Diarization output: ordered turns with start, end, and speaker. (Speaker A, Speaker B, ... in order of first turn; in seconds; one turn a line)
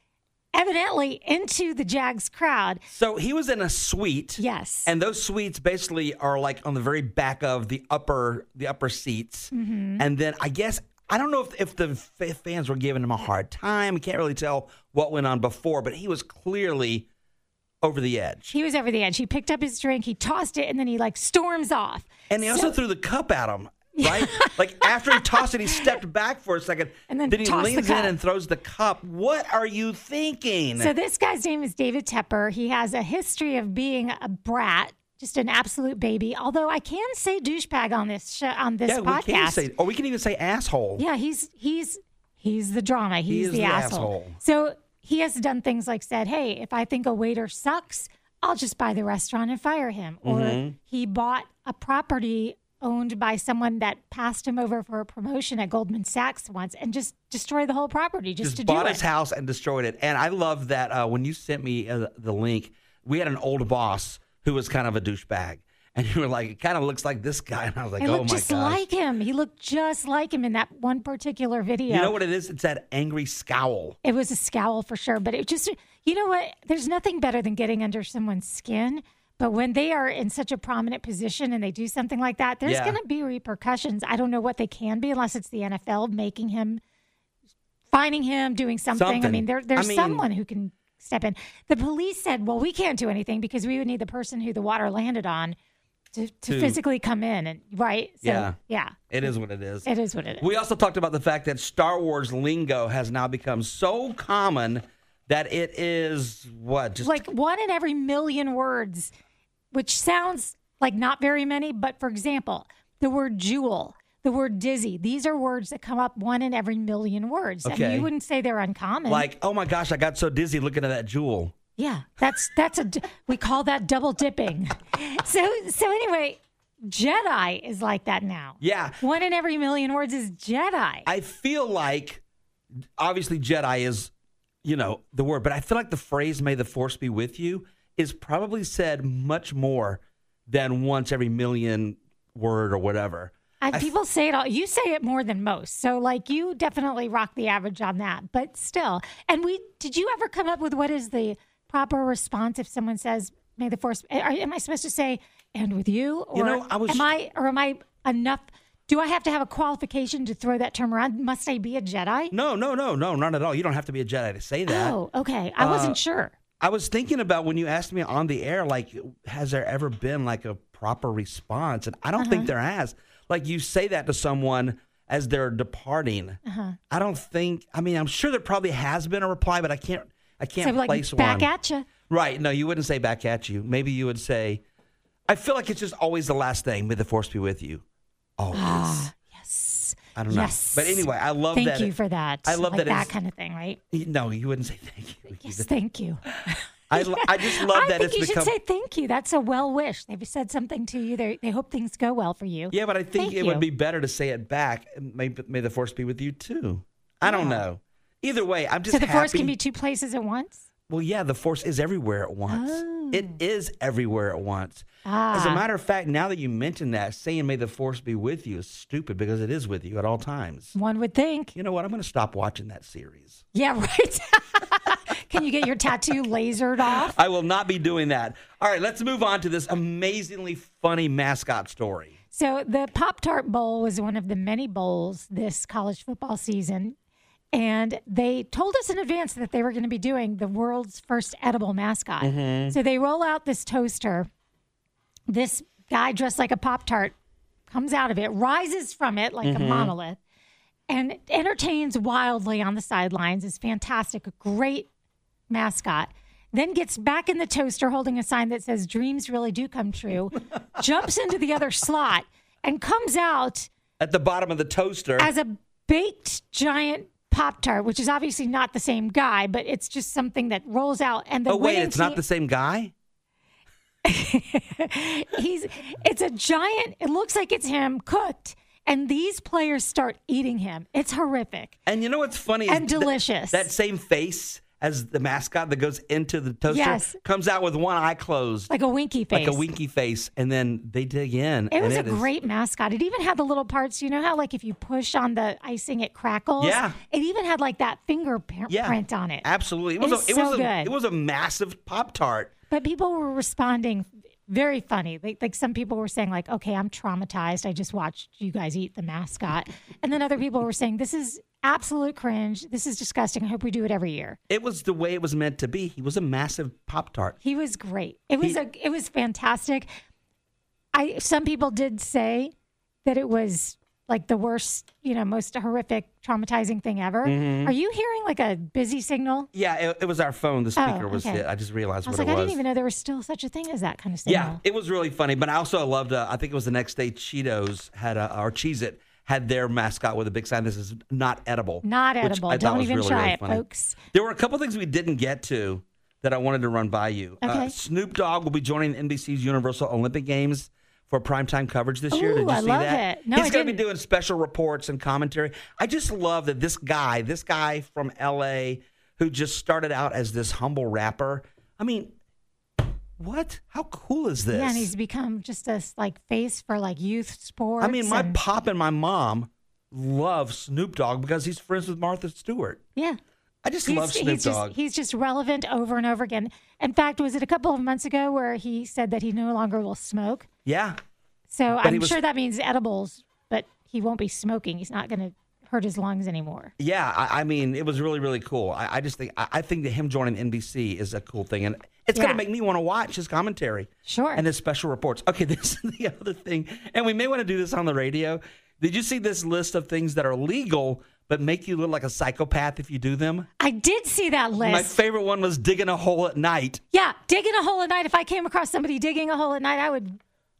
Speaker A: 0.5-2.8
Speaker B: 2.9-17.1
Speaker A: 4.4-4.9
Speaker A: 9.5-10.0
Speaker B: 17.8-18.4
Speaker A: 18.5-22.8
Speaker B: 22.3-30.9
Speaker A: 23.9-25.9
Speaker A: 27.1-28.1
Speaker A: 30.8-39.7
Speaker B: 38.9-41.0
Speaker A: 41.0-59.0
Speaker B: 43.3-44.4
Speaker B: 50.2-50.8
Speaker B: 58.4-68.8
Speaker A: 68.0-72.2
Speaker B: 71.9-74.0
Speaker A: 74.0-86.8
Speaker B: 82.6-83.0
Speaker A: 87.9-95.5
Speaker B: 88.9-90.2
Speaker A: 96.1-99.3
Speaker B: 96.5-96.8
Speaker B: 98.2-98.5
Speaker B: 99.1-99.9
Speaker A: 99.8-100.5
Speaker B: 100.4-107.2
Speaker A: 107.0-109.1
Speaker A: 109.7-119.3
Speaker B: 117.6-118.1
Speaker B: 119.1-121.6
Speaker A: 121.8-131.1
Speaker B: 128.6-129.0
Speaker B: 131.1-132.2
Speaker B: 133.0-134.1
Speaker B: 134.6-143.9
Speaker A: 143.6-162.3
Speaker B: 156.3-157.1
Speaker B: 162.3-164.9
Speaker A: 164.7-166.3
Speaker B: 165.6-166.0
Speaker B: 166.6-176.4
Speaker A: 172.2-172.5
Speaker A: 176.4-176.8
Speaker B: 176.9-181.5
Speaker A: 180.6-181.9
Speaker B: 182.1-184.6
Speaker B: 185.3-187.8
Speaker B: 188.4-189.1
Speaker A: 188.5-193.8
Speaker B: 190.2-191.9
Speaker B: 192.4-193.1
Speaker B: 193.9-195.7
Speaker A: 195.4-203.6
Speaker B: 196.9-198.5
Speaker B: 202.7-209.6
Speaker A: 207.2-207.6
Speaker A: 208.9-210.6
Speaker B: 210.9-220.8
Speaker A: 212.5-213.4
Speaker A: 215.0-215.6
Speaker A: 220.7-221.5
Speaker B: 221.5-223.4
Speaker A: 223.5-227.2
Speaker B: 227.0-232.1
Speaker A: 232.3-236.9
Speaker A: 237.5-244.3
Speaker B: 242.2-242.8
Speaker A: 245.3-247.1
Speaker A: 247.7-250.2
Speaker B: 249.4-249.9
Speaker A: 250.9-254.9
Speaker A: 255.5-263.7
Speaker B: 264.0-265.3
Speaker A: 265.2-272.2
Speaker B: 271.5-272.9
Speaker A: 274.0-281.7
Speaker B: 281.9-288.7
Speaker A: 282.6-283.7
Speaker A: 286.7-287.2
Speaker A: 288.7-289.6
Speaker B: 289.3-292.3
Speaker A: 291.7-299.4
Speaker B: 296.6-297.0
Speaker B: 298.7-302.5
Speaker A: 300.0-300.9
Speaker A: 302.7-314.4
Speaker B: 314.5-317.4
Speaker A: 317.4-319.9
Speaker A: 320.9-322.5
Speaker A: 323.0-329.5
Speaker B: 327.2-327.7
Speaker B: 329.5-332.6
Speaker A: 330.8-331.4
Speaker A: 332.0-334.6
Speaker B: 334.2-362.1
Speaker A: 341.8-344.0
Speaker A: 347.4-347.7
Speaker A: 352.1-353.8
Speaker B: 363.2-364.9
Speaker A: 364.5-368.4
Speaker B: 367.8-372.8
Speaker B: 373.6-374.7
Speaker A: 373.8-380.5
Speaker B: 380.6-380.9
Speaker A: 381.5-386.7
Speaker B: 381.8-382.2
Speaker B: 386.8-403.5
Speaker A: 392.1-392.4
Speaker A: 394.0-394.4
Speaker A: 403.6-405.0
Speaker B: 404.6-406.8
Speaker A: 406.9-410.2